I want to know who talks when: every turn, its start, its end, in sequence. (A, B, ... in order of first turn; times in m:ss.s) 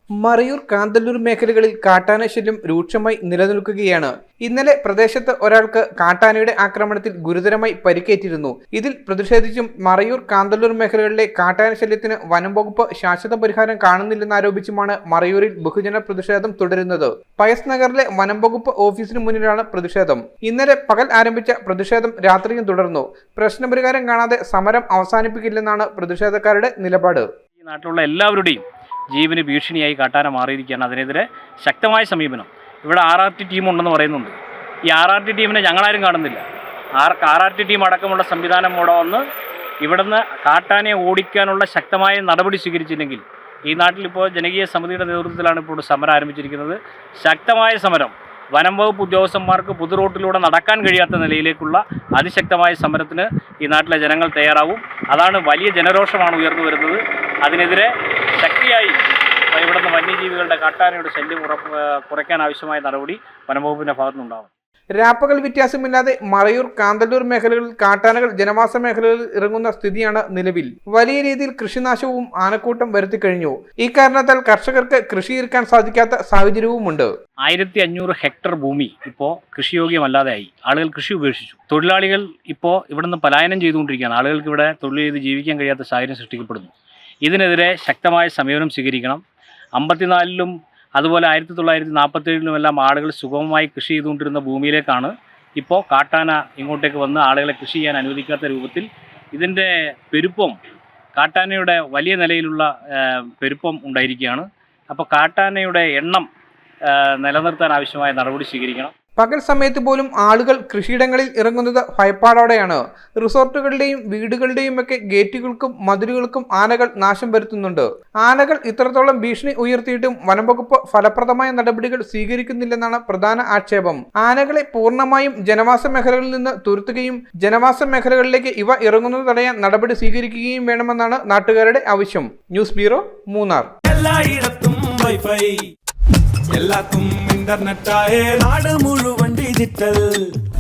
0:00.2-0:27.2 A
0:27.6-0:34.4 B
0:34.9-0:36.4 B
0:37.0-0:39.2 B
0:39.8-0:59.0 B
0:59.5-1:04.5 B
1:05.0-1:17.1 A
1:17.4-1:26.7 B
1:27.2-1:29.2 B
1:29.8-1:40.6 B
1:41.2-1:46.3 B
1:46.9-1:48.9 B
1:49.2-2:13.7 A
2:13.8-2:15.6 C
2:16.5-2:20.3 C